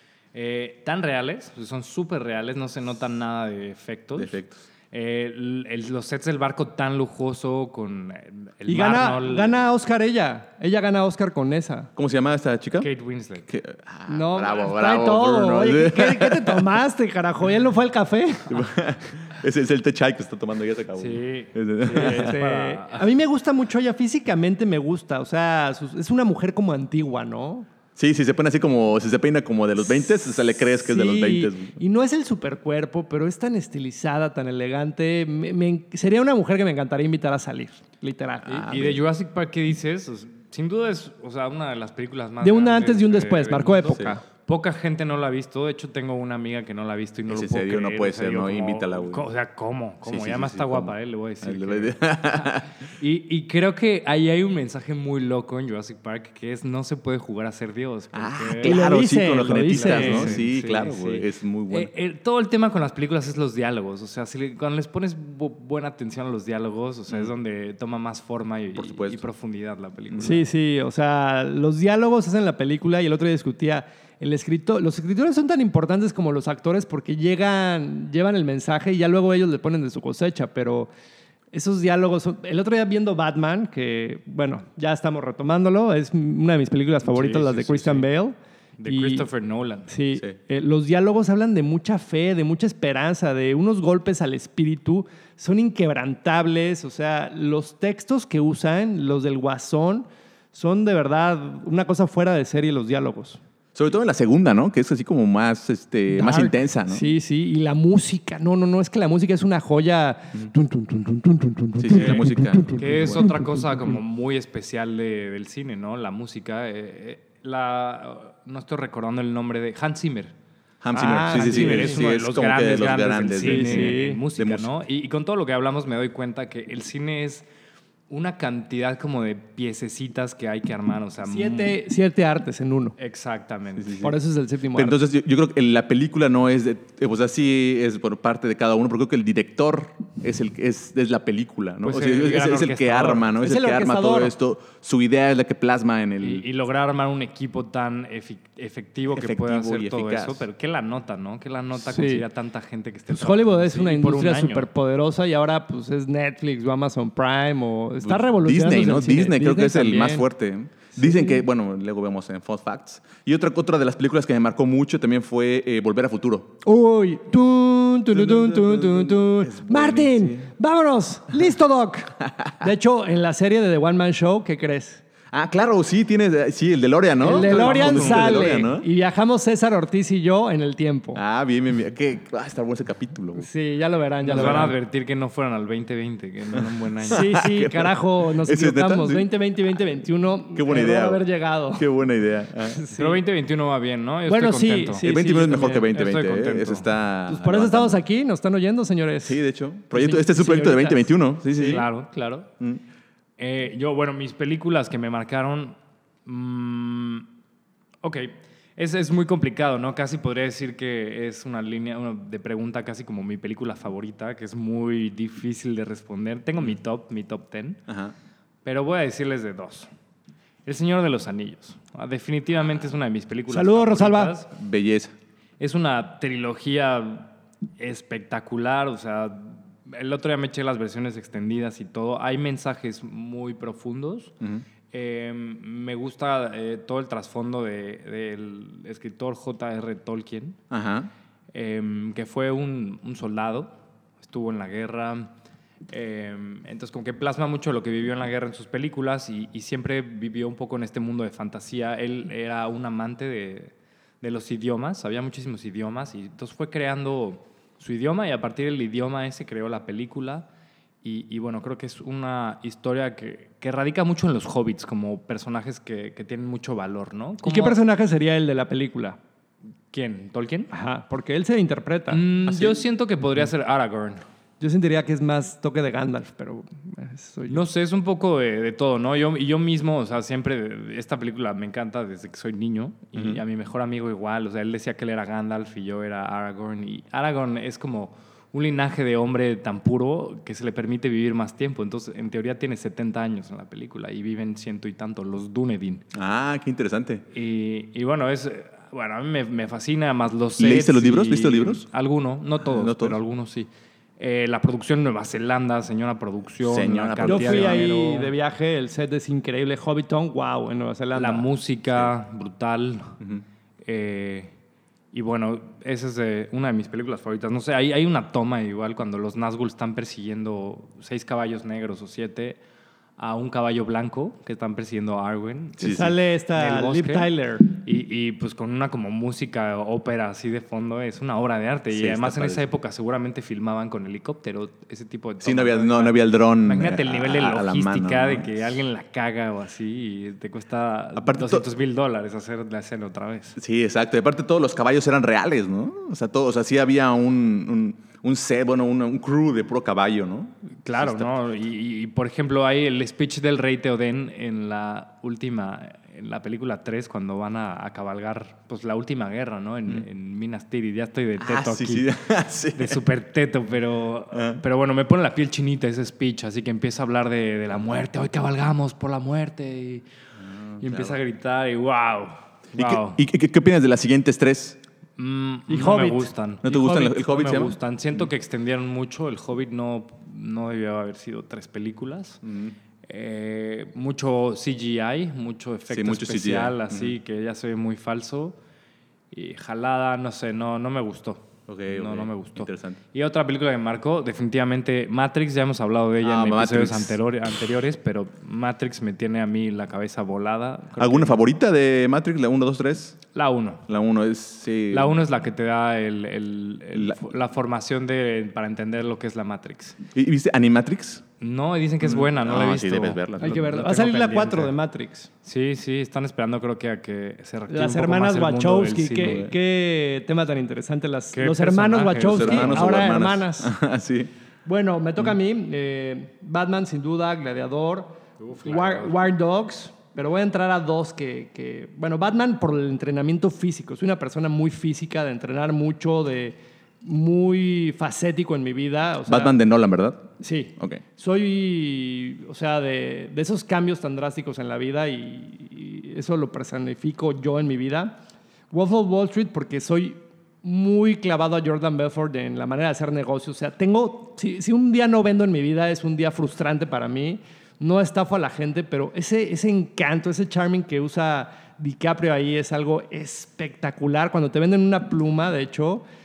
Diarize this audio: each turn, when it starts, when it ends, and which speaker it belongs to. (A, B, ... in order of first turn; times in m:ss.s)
0:00.3-0:04.4 A
0:04.2-0:04.6 B
0:04.9-0:09.6 A
0:08.7-0:11.9 C
0:12.0-0:12.9 B
0:12.8-0:13.5 A
0:13.5-0:16.7 B
0:14.1-0:18.6 C
0:18.5-0:22.3 B
0:21.0-0:23.0 A
0:21.9-0:27.7 C
0:28.0-0:31.8 B
0:29.8-0:38.7 C
0:38.4-0:39.0 B
0:38.7-0:58.8 A
0:42.4-0:44.2 C
0:47.3-0:49.2 B
0:50.0-0:52.7 B
0:58.1-1:01.9 B
0:58.6-1:00.4 C
0:59.5-1:10.5 A
1:08.8-1:09.2 B
1:10.2-1:20.9 C
1:21.5-1:28.3 C
1:27.0-1:28.1 A
1:28.8-1:29.9 A
1:28.8-1:29.2 C
1:29.9-1:43.4 C
1:43.7-1:47.1 B
1:46.1-1:53.7 C
1:51.8-1:53.2 B
1:52.0-2:00.3 A
2:00.8-2:04.7 B
2:00.9-2:02.0 C
2:01.3-2:07.4 A
2:03.4-2:04.2 C
2:08.1-2:11.8 A
2:11.2-2:13.0 C
2:13.0-2:14.1 A
2:13.8-2:14.1 B
2:14.0-2:15.0 C
2:14.7-2:26.4 B
2:21.8-2:23.3 A
2:23.4-2:24.3 C
2:26.2-2:34.7 A
2:29.1-2:30.4 B
2:31.8-2:32.2 C
2:33.1-2:40.2 C
2:38.0-2:46.5 B
2:41.0-2:41.4 C
2:46.6-2:55.0 C
2:48.1-2:50.5 B
2:52.2-2:52.7 B
2:55.3-2:58.8 B
2:57.2-3:01.2 C
2:57.3-2:58.6 A
3:01.1-3:03.5 B
3:03.4-3:04.7 C
3:04.2-3:07.4 A
3:04.3-3:04.7 B
3:06.5-3:09.3 B
3:07.1-3:11.8 C
3:10.5-3:11.2 B
3:11.7-3:12.8 B
3:12.7-3:13.2 C
3:12.9-3:15.0 A
3:14.3-3:15.9 C
3:15.0-3:18.0 B
3:15.8-3:16.9 A
3:17.3-3:19.4 C
3:19.2-3:21.8 B
3:19.9-3:21.8 C
3:21.6-3:22.5 A
3:23.4-3:27.3 A
3:28.0-3:37.8 A
3:37.9-3:38.1 B
3:38.6-3:39.9 A
3:40.6-3:44.5 A
3:43.5-3:44.3 C
3:44.5-3:45.1 B
3:45.6-3:54.3 A
3:54.9-4:00.6 A
4:00.7-4:01.1 B
4:01.5-4:05.3 A
4:05.9-4:20.4 A
4:21.0-4:27.8 A
4:27.4-4:29.2 C
4:29.9-4:30.7 A
4:30.7-4:32.7 C
4:32.1-4:34.2 A
4:34.6-4:37.6 C
4:37.5-4:56.0 A
4:43.2-4:43.4 B
4:56.1-4:57.2 B
4:57.3-5:03.7 A
5:00.6-5:01.8 B
5:02.6-5:03.2 B
5:04.2-5:08.3 A
5:06.6-5:07.9 B
5:07.2-5:11.4 C
5:11.2-5:13.2 A
5:13.8-5:14.5 A
5:15.1-5:22.6 A
5:23.2-5:43.6 A
5:25.8-5:26.1 B
5:25.8-5:27.7 C
5:31.9-5:32.6 B
5:35.4-5:38.6 B
5:41.2-5:41.6 B
5:43.6-5:51.3 B
5:50.8-6:02.1 A
6:01.4-6:03.0 B
6:02.7-6:10.0 A
6:04.3-6:04.6 B
6:10.4-6:11.2 B
6:10.8-6:13.2 A
6:12.7-6:14.8 B
6:15.2-6:22.4 A
6:15.7-6:17.1 C
6:16.6-6:18.2 B
6:22.4-6:22.8 B
6:23.0-6:28.6 A
6:25.9-6:27.1 B
6:29.3-6:41.4 A
6:31.7-6:33.0 B
6:36.2-6:37.2 B
6:41.0-6:43.2 B
6:43.3-6:43.8 A
6:43.9-6:45.2 B
6:44.9-6:50.0 A
6:46.9-6:47.2 B
6:50.1-6:51.2 B
6:51.4-6:54.7 A
6:52.0-6:53.6 B
6:53.4-6:55.3 C
6:55.4-6:59.4 A
6:57.7-7:03.7 C
6:59.2-6:59.5 B
7:01.3-7:02.9 A
7:02.2-7:04.3 B
7:04.6-7:19.6 C
7:08.4-7:09.3 A
7:19.3-7:21.0 B
7:20.4-7:28.2 C
7:28.7-7:46.0 C